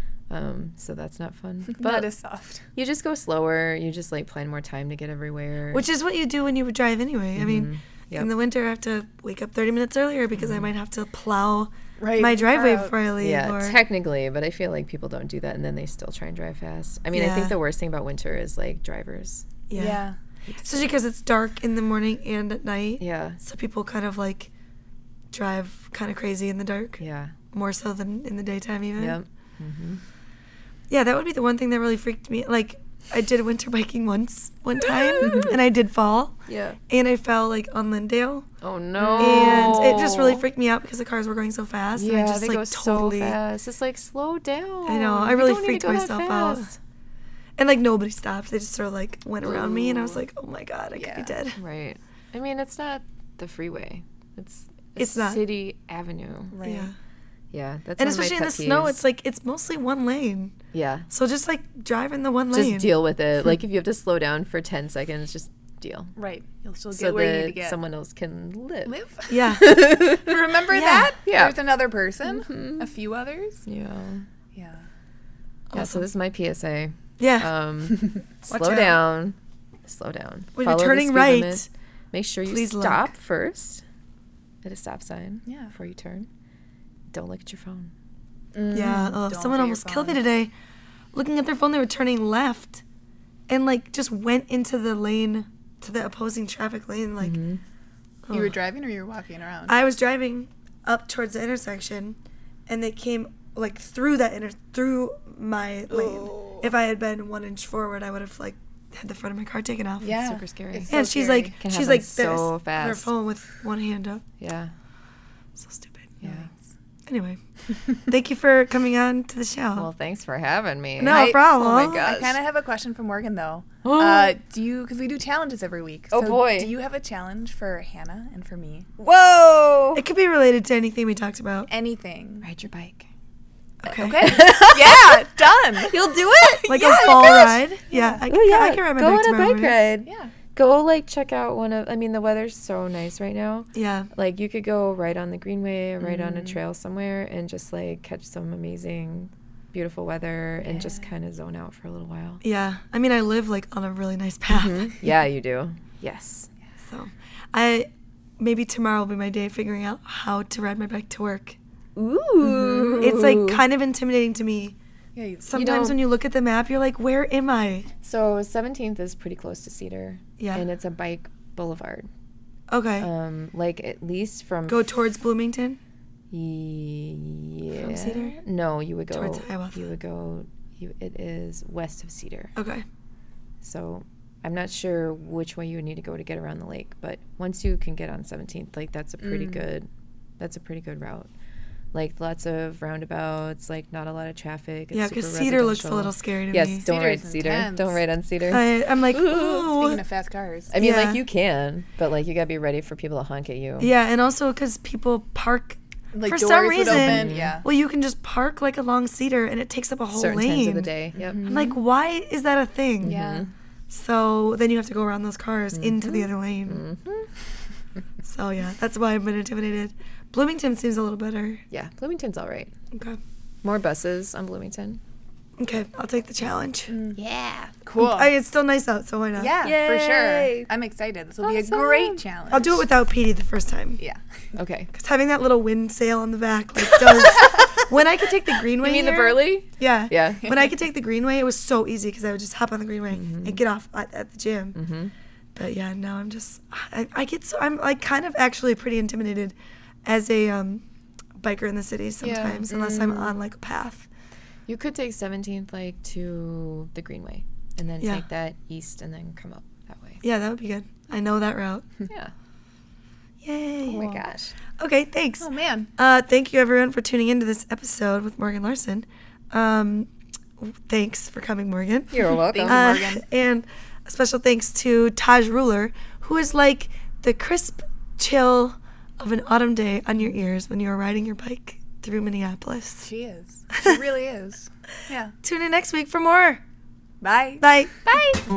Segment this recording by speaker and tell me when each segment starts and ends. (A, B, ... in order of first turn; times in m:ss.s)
0:00.3-0:02.1 A
0:01.7-0:02.7 B
0:02.7-0:05.8 A
0:05.7-0:13.8 C
0:07.3-0:08.3 A
0:10.3-0:10.7 A
0:12.0-0:13.0 B
0:13.2-0:19.5 A
0:17.1-0:17.6 C
0:19.7-0:20.0 C
0:19.8-0:20.2 B
0:20.5-0:20.9 A
0:20.6-0:24.5 C
0:23.0-0:23.4 A
0:25.3-0:27.0 C
0:27.0-0:27.4 A
0:27.5-0:29.2 C
0:29.0-0:30.0 A
0:30.9-0:38.5 C
0:35.2-0:35.5 A
0:35.2-0:35.6 B
0:36.5-0:36.8 A
0:38.6-0:40.4 A
0:39.0-0:39.8 B
0:39.2-0:43.4 C
0:42.0-0:46.8 A
0:44.9-0:46.7 C
0:47.6-0:51.6 C
0:49.4-0:50.2 B
0:50.9-0:51.3 B
0:51.6-0:56.6 A
0:55.0-0:55.4 C
0:56.5-0:56.9 B
0:56.6-0:56.9 C
0:57.5-0:59.0 A
0:58.0-1:00.6 C
1:00.7-1:01.1 A
1:01.1-1:03.0 C
1:02.5-1:06.1 A
1:06.2-1:07.8 B
1:06.9-1:08.9 A
1:08.8-1:13.6 B
1:09.3-1:09.9 C
1:09.5-1:10.6 A
1:10.7-1:11.1 C
1:11.2-1:11.6 A
1:12.2-1:12.9 A
1:13.6-1:14.2 A
1:14.5-1:14.9 B
1:15.7-1:16.0 C
1:15.7-1:23.8 A
1:17.2-1:17.5 C
1:18.5-1:19.0 C
1:20.5-1:21.6 C
1:22.5-1:23.1 C
1:24.6-1:26.3 A
1:25.4-1:25.7 B
1:27.1-1:27.9 A
1:28.5-1:30.2 B
1:28.7-1:30.5 C
1:31.1-1:32.8 C
1:33.5-1:37.4 C
1:37.2-1:37.6 A
1:38.2-1:38.5 C
1:38.3-1:39.8 B
1:39.7-1:50.2 C
1:45.9-1:46.7 B
1:50.0-1:51.6 B
1:50.0-1:50.9 A
1:50.9-1:54.2 C
1:51.6-1:53.1 A
1:54.4-1:54.7 A
1:55.6-1:56.2 C
1:56.2-1:56.5 A
1:57.0-1:57.4 C
1:58.0-1:59.9 C
1:59.8-2:02.4 A
2:01.0-2:02.0 C
2:01.0-2:08.9 B
2:03.8-2:04.3 A
2:06.1-2:06.7 A
2:09.0-2:10.0 A
2:09.9-2:11.7 C
2:11.7-2:12.5 B
2:12.4-2:13.1 A
2:13.8-2:14.4 C
2:14.0-2:18.2 B
2:14.2-2:15.2 A
2:15.9-2:17.4 A
2:16.7-2:19.8 C
2:18.3-2:32.4 A
2:20.0-2:20.3 B
2:23.7-2:24.1 C
2:26.0-2:26.6 B
2:30.6-2:31.1 B
2:32.4-2:34.9 C
2:34.5-2:36.5 A
2:36.8-2:41.6 C
2:42.0-2:43.6 A
2:42.4-2:43.1 B
2:43.0-2:44.8 C
2:45.2-2:45.5 B
2:45.4-2:47.9 C
2:45.5-2:46.0 A
2:48.0-2:52.1 A
2:50.4-2:50.6 C
2:52.7-2:53.1 C
2:53.0-2:54.8 A
2:54.7-2:55.8 C
2:56.3-3:02.5 A
2:57.8-2:58.4 C
2:59.1-2:59.8 C
3:02.6-3:02.8 C
3:03.6-3:09.9 A
3:09.2-3:09.7 B
3:10.4-3:11.3 A
3:11.9-3:19.7 A
3:14.9-3:16.8 C
3:16.8-3:18.0 B
3:18.5-3:20.0 C
3:19.1-3:20.7 B
3:20.7-3:23.9 A
3:20.8-3:21.2 C
3:23.8-3:30.9 C
3:26.1-3:27.6 B
3:26.9-3:27.6 A
3:30.1-3:31.4 A
3:31.1-3:31.8 B
3:31.4-3:33.2 C
3:33.0-3:33.5 A
3:33.0-3:33.5 B
3:33.9-3:36.8 C
3:35.7-3:37.3 A
3:38.2-3:41.6 C
3:41.7-3:42.7 A
3:42.9-3:43.2 C
3:43.6-3:45.0 A
3:45.6-3:47.0 C
3:46.9-3:47.2 B
3:47.1-3:47.8 A
3:47.8-3:48.3 B
3:48.0-3:49.5 C
3:49.4-3:52.8 B
3:49.6-3:50.7 A
3:51.4-3:52.2 A
3:52.5-3:54.0 C
3:54.5-3:54.9 A
3:54.9-4:04.8 C
3:57.1-3:57.6 B
3:58.8-4:00.6 A
4:03.1-4:03.6 A
4:04.7-4:05.1 A
4:05.5-4:10.8 C
4:11.4-4:14.1 C
4:12.2-4:12.6 A
4:12.7-4:13.4 B
4:14.7-4:20.2 A
4:20.2-4:21.8 C
4:22.1-4:22.3 A
4:23.4-4:24.2 C
4:23.8-4:24.5 A
4:24.8-4:43.1 C
4:25.4-4:25.9 B
4:32.1-4:32.9 A
4:32.5-4:33.2 B
4:43.0-4:45.3 B
4:43.7-4:44.0 C
4:45.4-4:46.6 C
4:47.2-4:48.2 B
4:47.6-4:47.9 C
4:48.1-4:48.4 A